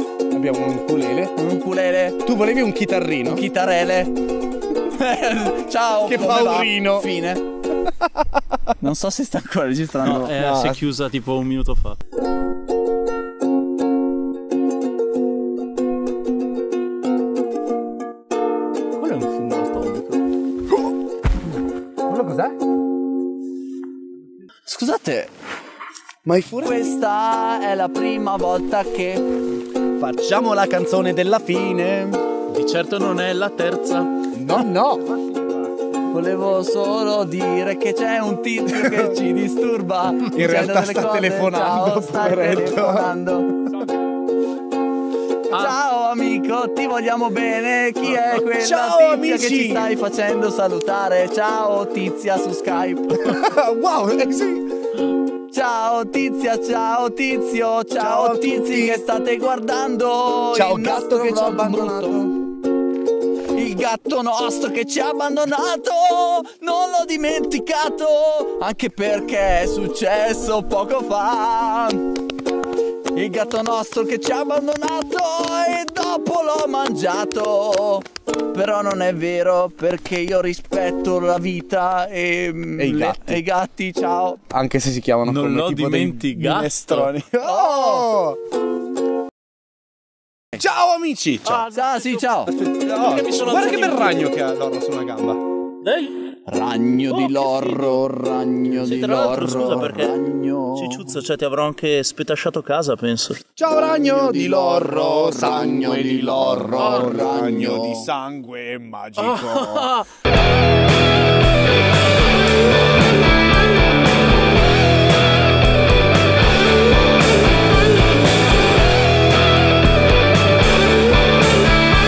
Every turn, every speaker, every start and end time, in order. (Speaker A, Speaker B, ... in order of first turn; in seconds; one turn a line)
Speaker A: 0.3-1.4
Speaker B: 1.4-2.2
Speaker A: 2.2-3.4
Speaker B: 3.2-4.1
Speaker B: 4.8-7.4
Speaker A: 6.0-7.1
Speaker B: 8.8-10.4
Speaker C: 10.0-12.0
Speaker A: 10.3-10.8
Speaker C: 19.0-20.2
Speaker A: 22.1-22.6
Speaker B: 24.7-25.3
Speaker A: 26.2-26.8
Speaker B: 26.6-29.2
Speaker A: 30.0-32.2
Speaker C: 32.5-34.1
Speaker A: 34.3-35.1
Speaker B: 36.1-43.5
Speaker A: 38.7-39.1
Speaker A: 40.3-43.1
Speaker B: 45.5-53.4
Speaker A: 48.4-49.9
Speaker A: 53.1-54.7
Speaker B: 55.5-62.2
Speaker A: 58.0-59.0
Speaker A: 60.5-62.4
Speaker B: 63.5-72.0
Speaker B: 73.1-84.4
Speaker A: 82.8-83.4
Speaker A: 84.5-88.4
Speaker C: 85.2-87.1
Speaker B: 87.4-88.1
Speaker A: 90.6-91.7
Speaker C: 91.5-92.3
Speaker B: 91.7-92.5
Speaker A: 92.5-95.4
Speaker C: 92.8-94.3
Speaker C: 95.8-96.2
Speaker B: 96.5-101.1
Speaker C: 97.1-98.0
Speaker C: 98.8-100.2
Speaker C: 100.8-103.4
Speaker A: 103.6-109.9
Speaker B: 103.7-108.1
Speaker C: 106.8-107.2
Speaker C: 109.2-110.1